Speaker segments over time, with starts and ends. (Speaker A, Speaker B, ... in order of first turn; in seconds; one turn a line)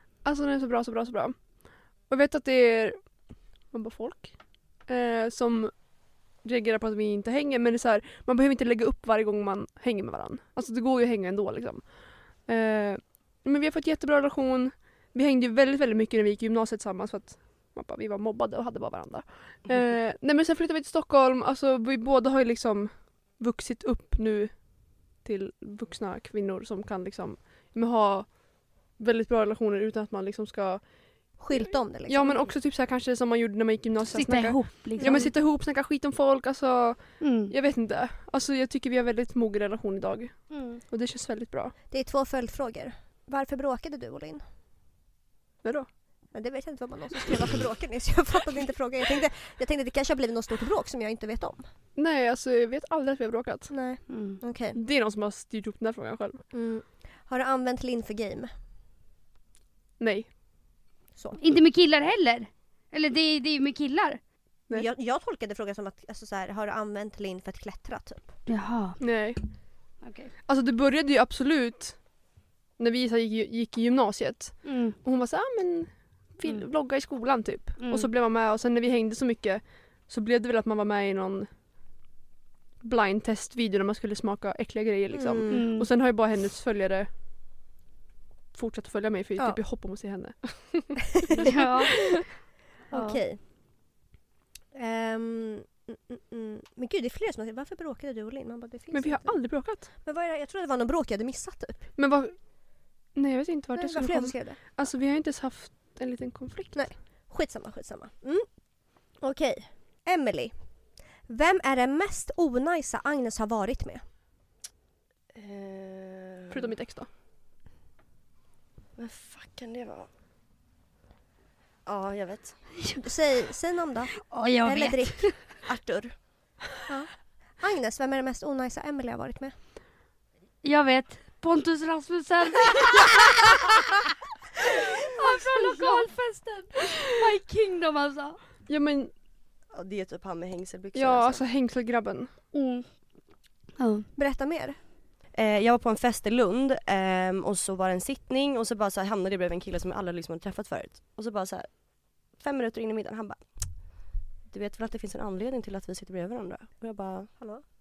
Speaker A: 0.2-41.8
Speaker B: 31.4-32.5
Speaker C: 34.1-35.3
Speaker C: 37.2-37.5
Speaker C: 40.5-40.8
Speaker B: 41.9-44.4
Speaker A: 45.6-45.9
Speaker B: 46.3-51.7
Speaker A: 52.0-53.9
Speaker B: 53.7-54.8
Speaker C: 54.1-54.4
Speaker A: 54.7-56.5
Speaker B: 56.5-58.5
Speaker A: 60.0-60.4
Speaker C: 61.4-64.2
Speaker B: 64.7-68.3
Speaker C: 68.5-69.0
Speaker A: 69.0-69.6
Speaker C: 70.0-70.3
Speaker A: 70.5-72.2
Speaker A: 72.8-81.5
Speaker C: 74.7-74.9
Speaker C: 77.8-78.1
Speaker A: 82.8-87.1
Speaker B: 85.1-85.6
Speaker C: 85.5-85.9
Speaker A: 88.5-92.0
Speaker C: 91.5-91.9
Speaker B: 92.9-93.4
Speaker B: 94.7-101.9
Speaker A: 98.9-99.9
Speaker A: 102.0-107.0
Speaker B: 103.8-104.6
Speaker B: 106.7-110.7
Speaker B: 111.2-114.0
Speaker D: 115.3-116.7
Speaker A: 116.5-117.1
Speaker D: 119.0-120.1
Speaker D: 121.9-122.7
Speaker B: 123.0-124.1
Speaker C: 124.3-125.5
Speaker B: 124.6-125.5
Speaker D: 125.7-126.2
Speaker B: 126.9-129.6
Speaker C: 130.6-133.2
Speaker C: 135.0-138.3
Speaker A: 138.7-139.1
Speaker D: 139.7-141.4
Speaker A: 140.9-142.3
Speaker C: 142.5-142.9
Speaker C: 143.8-144.1
Speaker B: 144.2-144.8
Speaker D: 145.3-157.3
Speaker B: 157.4-157.7